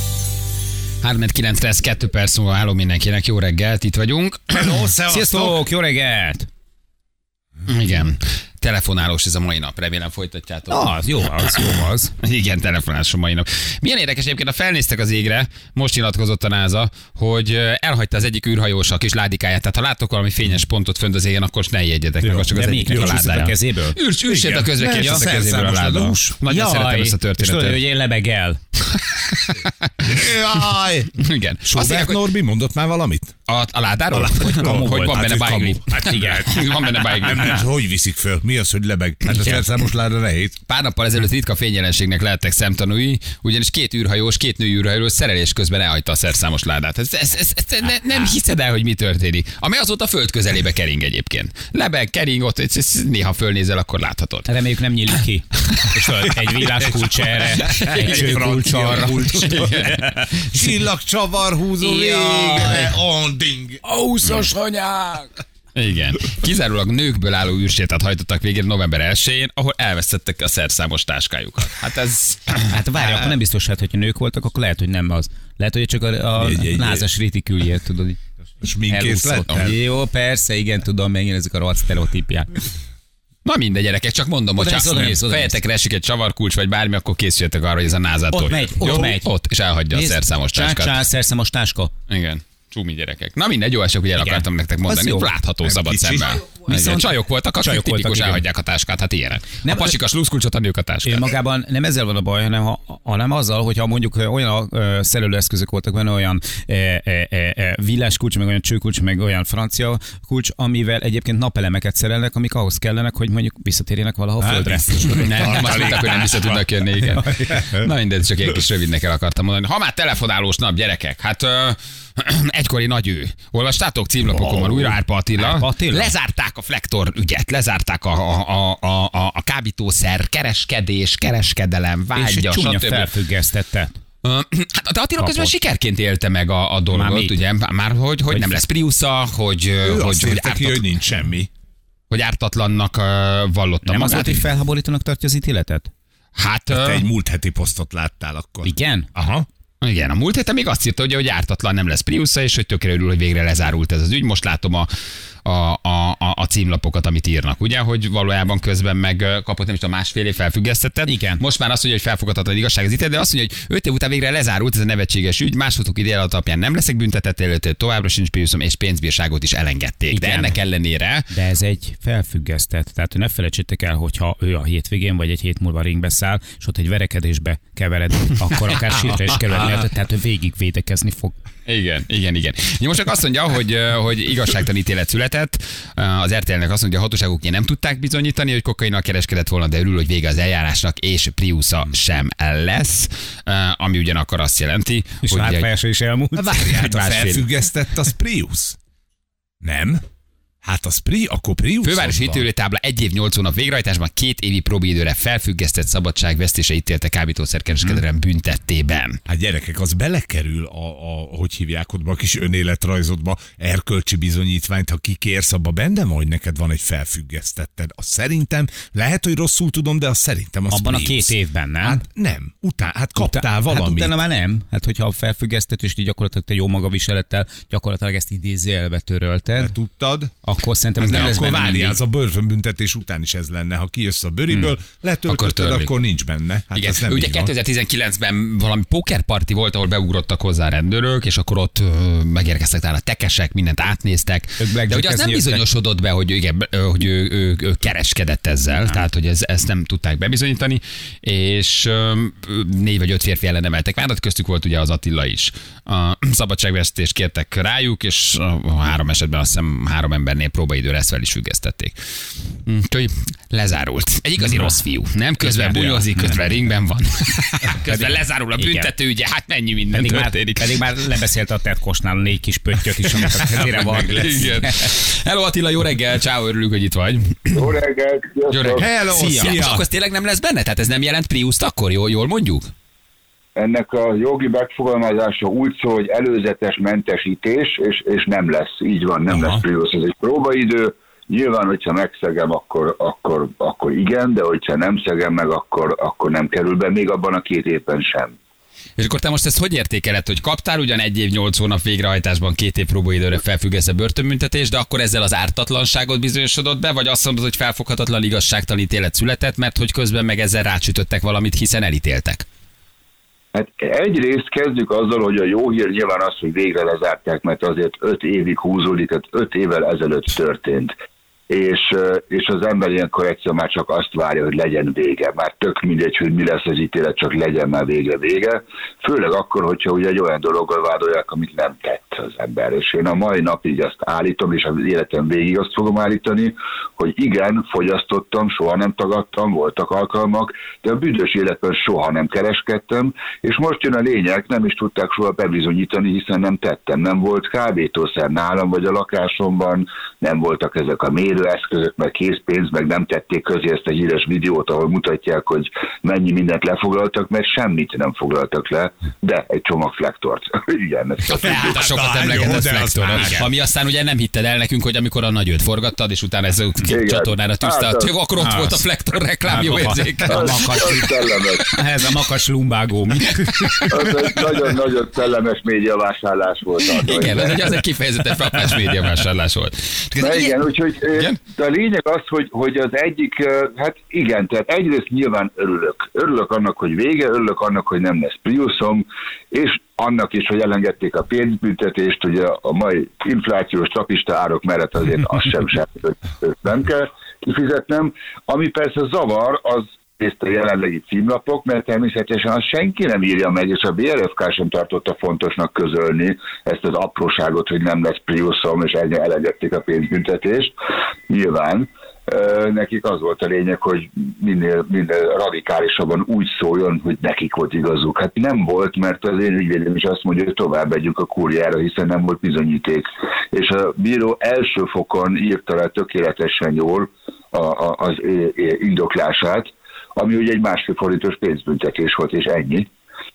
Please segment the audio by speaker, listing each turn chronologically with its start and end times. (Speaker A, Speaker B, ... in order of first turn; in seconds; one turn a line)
Speaker A: 1.0-4.9
Speaker B: 4.5-5.6
Speaker C: 5.0-6.5
Speaker A: 7.7-11.7
Speaker C: 10.7-12.1
Speaker A: 12.2-27.8
Speaker B: 22.2-23.2
Speaker C: 22.5-24.0
Speaker B: 24.3-26.2
Speaker C: 25.0-25.2
Speaker C: 26.4-28.6
Speaker A: 28.9-29.9
Speaker B: 30.0-33.3
Speaker A: 31.1-32.3
Speaker A: 33.5-37.6
Speaker B: 34.1-36.2
Speaker C: 34.3-35.2
Speaker C: 35.9-36.7
Speaker B: 37.1-40.6
Speaker A: 39.3-39.6
Speaker A: 40.7-54.5
Speaker C: 54.5-60.5
Speaker A: 55.6-56.0
Speaker B: 56.9-59.9
Speaker A: 57.6-60.1
Speaker B: 60.5-63.8
Speaker A: 61.8-63.0
Speaker A: 63.9-73.3
Speaker C: 72.7-78.2
Speaker B: 76.4-77.1
Speaker B: 78.6-79.8
Speaker C: 78.9-82.5
Speaker A: 83.4-91.0
Speaker C: 84.6-85.6
Speaker C: 88.3-89.3
Speaker C: 89.9-91.9
Speaker A: 92.1-101.2
Speaker C: 94.2-95.3
Speaker B: 95.7-96.4
Speaker C: 96.6-98.4
Speaker C: 99.6-99.9
Speaker C: 101.0-115.3
Speaker B: 114.4-116.7
Speaker A: 115.0-133.1
Speaker B: 117.3-117.9
Speaker B: 124.3-125.0
Speaker C: 125.3-126.1
Speaker C: 132.2-133.9
Speaker A: 134.2-140.8
Speaker C: 135.2-135.5
Speaker C: 136.9-137.4
Speaker C: 138.3-138.6
Speaker B: 139.8-141.5
Speaker A: 142.1-144.4
Speaker C: 143.8-145.9
Speaker A: 146.3-147.1
Speaker B: 146.7-149.4
Speaker C: 148.6-149.1
Speaker A: 149.8-154.9
Speaker A: 155.4-171.3
Speaker C: 161.0-161.4
Speaker C: 170.1-170.6
Speaker C: 171.3-181.3
Speaker A: 181.7-195.7
Speaker C: 195.2-196.8
Speaker B: 196.3-198.8
Speaker A: 196.7-197.5
Speaker B: 199.6-200.0
Speaker B: 200.6-202.4
Speaker A: 201.8-209.2
Speaker B: 209.3-224.1
Speaker C: 220.7-222.0
Speaker C: 223.2-229.7
Speaker B: 229.6-230.3
Speaker C: 230.4-231.5
Speaker A: 231.0-232.0
Speaker B: 231.0-237.5
Speaker A: 235.2-235.9
Speaker A: 236.7-261.9
Speaker C: 244.6-245.6
Speaker A: 262.6-270.9
Speaker C: 264.4-264.7
Speaker C: 265.4-266.3
Speaker C: 267.8-268.9
Speaker C: 269.9-274.9
Speaker A: 273.2-277.7
Speaker D: 277.5-278.9
Speaker A: 278.5-282.7
Speaker B: 278.8-279.8
Speaker D: 283.6-298.3
Speaker B: 289.3-289.6
Speaker A: 299.0-312.4
Speaker D: 313.5-320.9
Speaker D: 321.5-361.9
Speaker A: 361.3-370.9
Speaker B: 361.4-363.4
Speaker C: 363.1-363.4
Speaker D: 366.9-368.1
Speaker C: 368.4-368.8
Speaker C: 369.4-373.9
Speaker D: 370.3-371.8
Speaker A: 373.4-374.0
Speaker D: 373.9-377.8
Speaker A: 376.9-380.6
Speaker D: 380.1-410.7
Speaker A: 381.1-381.4
Speaker D: 411.3-432.9